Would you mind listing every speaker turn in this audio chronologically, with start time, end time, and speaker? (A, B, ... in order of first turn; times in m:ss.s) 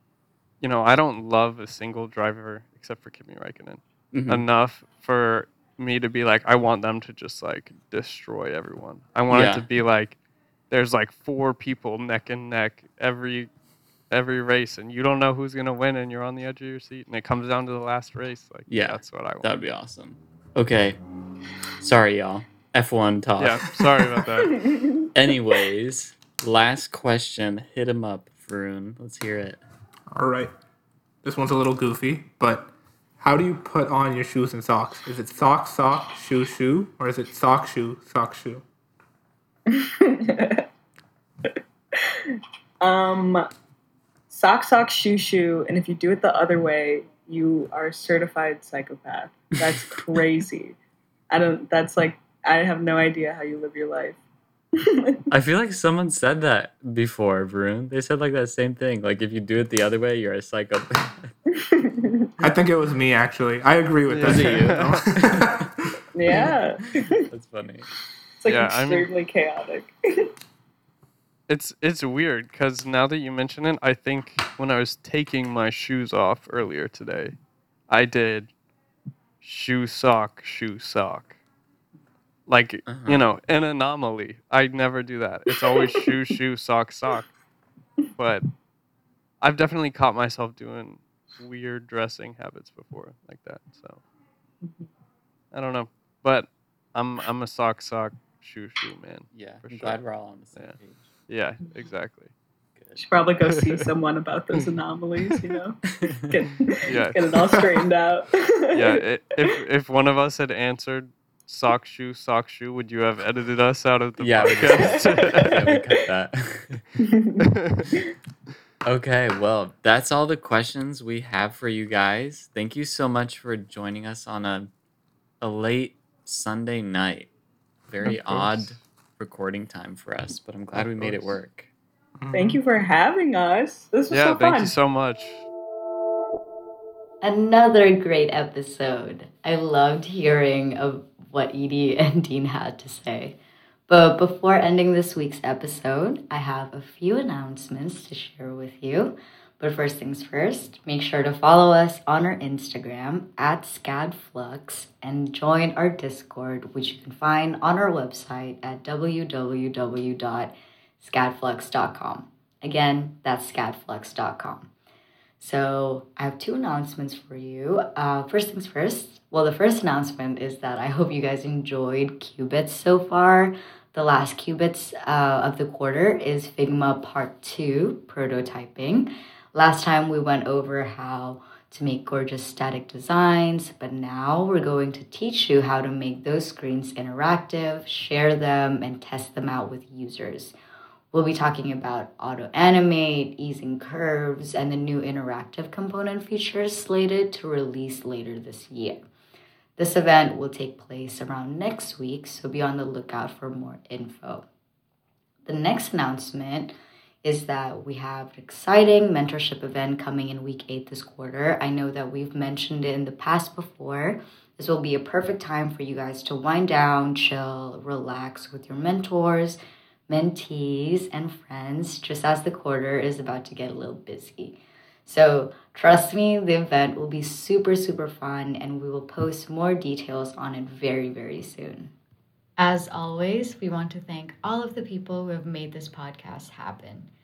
0:00.6-0:10.2 A
0:04.1-0:04.4 B
0:09.3-0:09.7 B
0:10.7-0:13.5 A
0:14.1-0:19.5 A
0:18.7-0:21.0 B
0:21.8-0:23.8 B
0:23.4-0:24.6 A
0:24.6-0:25.1 C
0:25.1-0:29.6 B
0:30.1-0:30.5 D
0:31.2-0:38.6 D
0:39.7-0:40.6 C
0:41.4-0:43.5 C
0:44.3-0:50.8 C
0:51.3-0:54.2 C
0:54.8-0:55.2 C
0:55.3-1:01.3 B
1:01.5-1:02.3 C
1:02.4-1:05.9 D
1:04.1-1:05.0 A
1:04.2-1:05.7 B
1:06.1-1:07.2 C
1:06.3-1:07.9 B
1:08.4-1:10.3 C
1:08.4-1:09.1 A
1:11.5-1:17.4 A
1:17.9-1:18.5 A
1:19.4-1:21.4 A
1:22.5-1:27.3 A
1:22.9-1:23.2 B
1:28.2-1:28.4 A
1:29.4-1:34.0 A
1:35.5-1:40.0 A
1:39.3-1:41.0 B
1:41.3-1:42.3 A
1:42.7-1:43.0 B
1:43.0-1:48.9 C
1:43.5-1:43.8 A
1:46.0-1:46.3 B
1:46.9-1:47.3 A
1:48.7-1:55.6 A
1:54.2-1:56.8 B
1:54.8-1:55.8 C
1:57.0-1:57.4 C
1:57.6-1:57.9 A
1:58.8-2:04.7 B
2:05.4-2:07.3 B
2:07.9-2:11.7 B
2:08.0-2:08.7 A
2:10.8-2:11.4 A
2:12.2-2:12.6 D
2:12.3-2:14.7 C
2:14.1-2:15.4 A
2:17.2-2:44.7 E
2:45.4-3:10.5 E
3:11.1-3:19.0 E
3:19.8-3:24.4 E
3:25.4-3:39.6 E
3:40.1-3:51.9 E
3:52.6-3:57.1 E